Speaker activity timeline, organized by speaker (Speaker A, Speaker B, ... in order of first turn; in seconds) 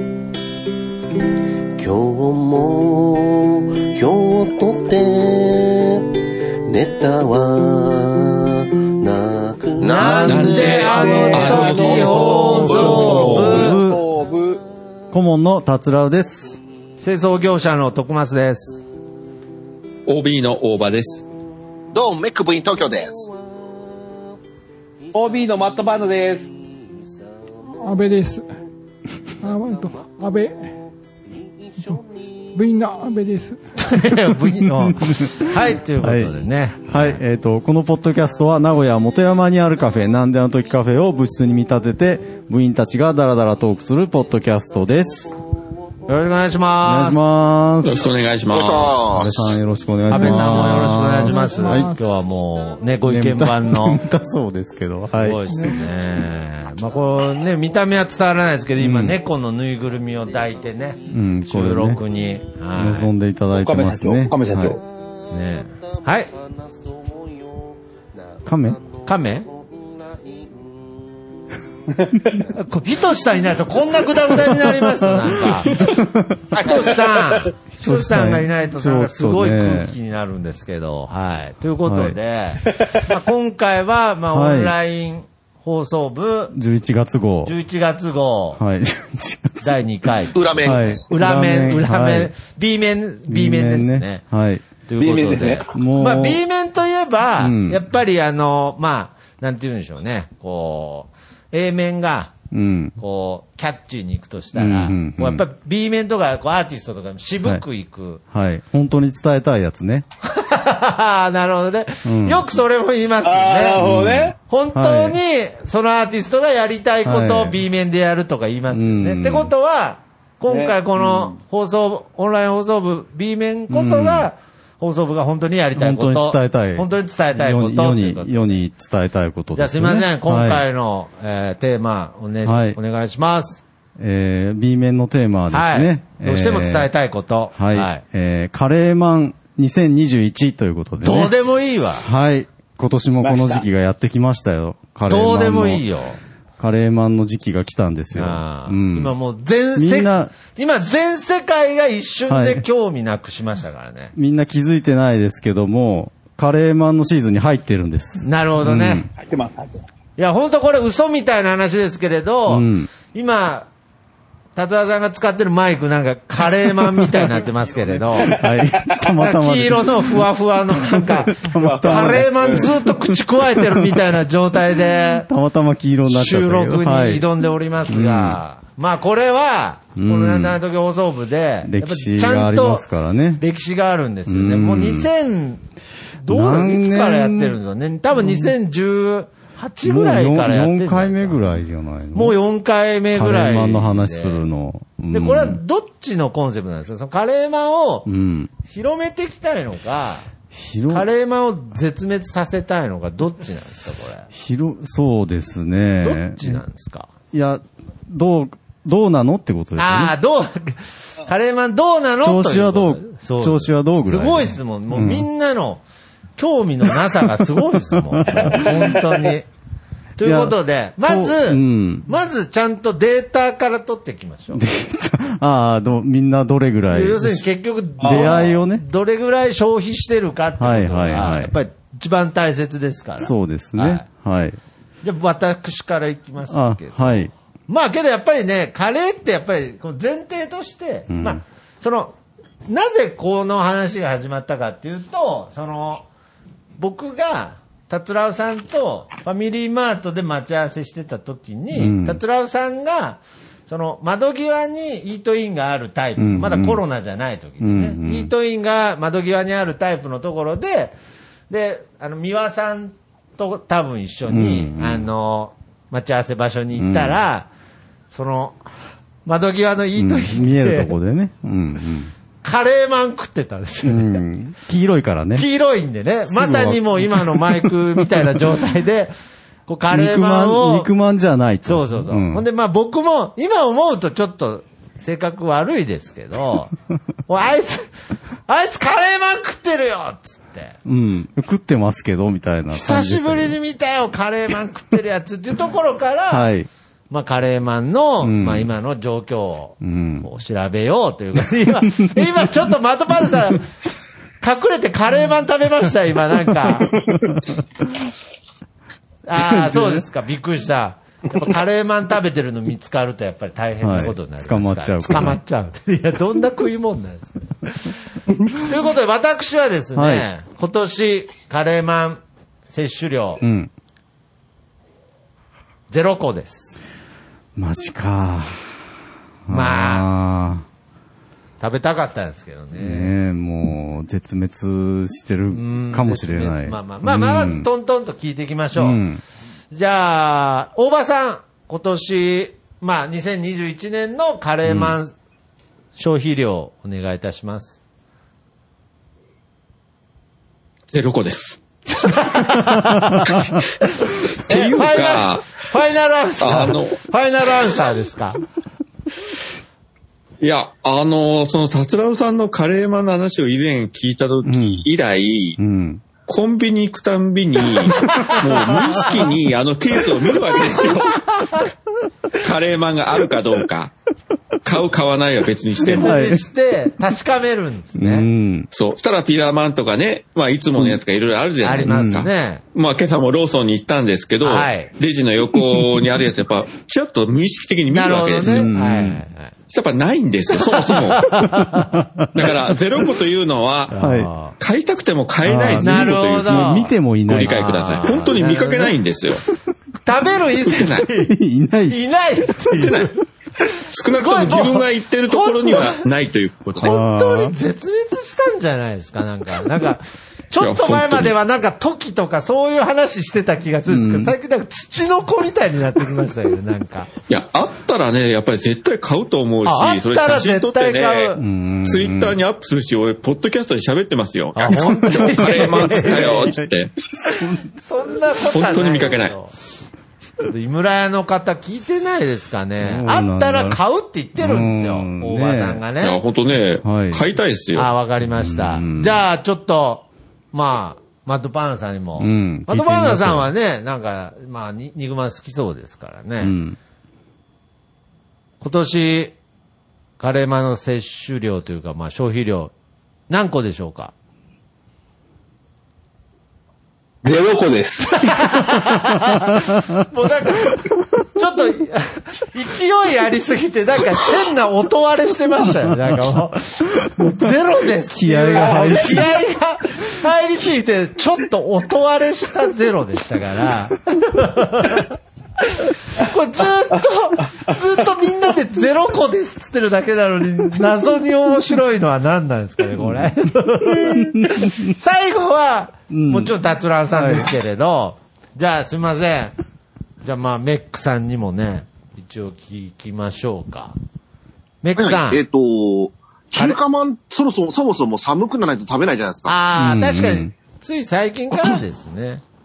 Speaker A: 1.8-6.0, 6.7-12.3
Speaker B: 9.8-10.8, 21.9-23.2, 48.5-49.6, 90.3-91.0, 495.0-499.5
Speaker C: 9.8-13.8, 17.0-18.8, 33.8-37.2, 46.1-47.2, 50.1-54.0, 55.1-63.1, 65.3-66.3, 69.0-69.5, 72.5-75.8, 76.5-86.5, 87.4-88.6, 89.6-94.2, 94.9-102.3, 103.0-108.2, 110.2-113.9, 114.4-128.6, 129.5-133.6, 135.5-138.0, 141.0-142.1, 145.1-146.2, 148.1-154.1, 158.2-159.1, 160.2-163.7, 164.6-168.4, 169.0-175.3, 176.1-182.8, 183.4-185.6, 186.2-191.4, 192.1-194.4, 195.1-198.1, 198.6-200.3, 200.9-204.3, 206.0-207.1, 209.8-215.8, 216.4-219.5, 220.2-224.6, 226.9-234.0, 235.0-242.1, 242.7-246.1, 246.8-260.9, 261.5-267.5, 268.1-268.6, 269.2-270.9, 272.4-274.2, 275.3-279.1, 279.7-280.9, 281.6-286.7, 287.3-287.9, 288.5-290.8, 292.7-296.5, 297.1-303.6, 304.4-307.0, 309.2-317.9, 318.6-323.4, 325.9-326.8, 329.5-330.1, 331.6-333.1, 335.5-339.0, 339.7-345.1, 345.9-347.8, 351.9-353.4, 354.4-358.4, 367.9-368.4, 375.8-378.3, 381.6-382.6, 384.4-384.9, 387.9-389.5, 390.6-391.9, 393.9-394.5, 395.8-398.9, 400.0-401.3, 401.9-406.0, 406.8-417.1, 419.6-421.4, 424.6-426.5, 427.8-429.5, 430.4-436.2, 437.7-446.6, 448.6-449.3, 450.2-452.7, 453.3-454.1, 458.1-489.5, 490.2-493.9, 494.8-495.4, 499.4-502.4
Speaker D: 10.3-12.3, 20.1-21.3, 47.8-49.0, 350.9-351.6, 354.3-355.5, 356.4-357.0, 360.4-365.6, 366.2-371.7, 372.4-373.9, 374.6-376.1, 378.7-388.7, 389.7-391.5, 392.3-394.0, 394.5-399.4, 400.7-401.0, 402.7-403.1, 403.9-406.9, 410.6-411.3, 417.3-426.9, 428.4-429.3, 436.0-437.9
Speaker E: 10.8-14.6, 25.1-26.5, 63.5-64.8, 72.0-72.5, 95.0-95.7, 113.2-114.4, 120.5-121.4, 143.2-143.6, 159.2-159.8, 171.6-172.7, 228.0-228.3, 457.2-458.3, 468.6-469.3
Speaker F: 12.8-14.0, 15.1-16.6, 34.6-36.3, 36.8-45.3, 46.8-48.1, 49.1-51.9, 53.0-55.4, 58.8-59.2, 61.1-62.0, 62.7-64.8, 68.4-68.8, 74.3-76.5, 77.7-80.0, 81.8-82.2, 84.3-84.7, 86.5-87.5, 88.6-89.8, 90.6-92.3, 93.3-94.6, 95.7-96.4, 97.4-97.8, 102.5-103.0, 104.5-105.4, 108.3-110.0, 112.0-112.4, 113.8-115.2, 117.0-117.5, 118.7-119.5, 123.7-124.3, 125.8-130.6, 132.4-132.8, 134.0-136.9, 137.5-141.3, 142.0-145.8, 146.6-149.1, 149.7-150.3, 152.3-152.6, 154.1-159.1, 162.5-162.9, 168.2-172.7, 175.2-177.2, 177.9-178.4, 179.9-180.6, 181.6-183.4, 184.3-185.1, 186.3-187.6, 188.2-188.5, 189.8-192.4, 193.1-195.6, 198.1-198.5, 200.5-201.1, 204.3-206.6, 207.3-210.1, 212.2-215.3, 217.9-218.7, 220.2-222.1, 224.5-227.5, 228.0-228.8, 230.6-231.5, 233.2-234.6, 236.5-237.3, 241.1-241.4, 251.7-252.2, 256.2-256.8, 257.6-258.3, 264.3-265.1, 266.7-267.2, 269.9-272.1, 273.8-275.5, 276.3-278.2, 279.9-282.4, 290.8-293.6, 296.3-296.7, 298.2-298.7, 299.8-300.3, 302.0-302.3, 309.3-310.0, 313.8-315.4, 319.9-320.3, 323.4-323.7, 327.6-328.8, 329.5-330.6, 332.7-337.7, 338.8-339.2, 344.6-344.9, 364.4-364.9, 365.6-366.0, 375.9-376.4, 377.9-378.7, 381.8-382.2, 388.4-389.2, 391.8-392.5, 394.0-394.3, 395.4-398.1, 401.2-402.6, 406.8-407.6, 413.9-414.3, 421.4-422.4, 425.6-427.7, 432.8-433.8, 434.4-435.8, 436.8-437.2, 438.2-439.2, 442.2-443.5, 446.4-446.8, 468.1-469.4, 483.0-483.4, 483.9-484.9, 486.1-486.5, 487.1-487.5, 499.8-500.5
Speaker G: 27.8-28.4, 29.4-30.7, 32.5-33.6, 50.1-52.1, 55.5-55.8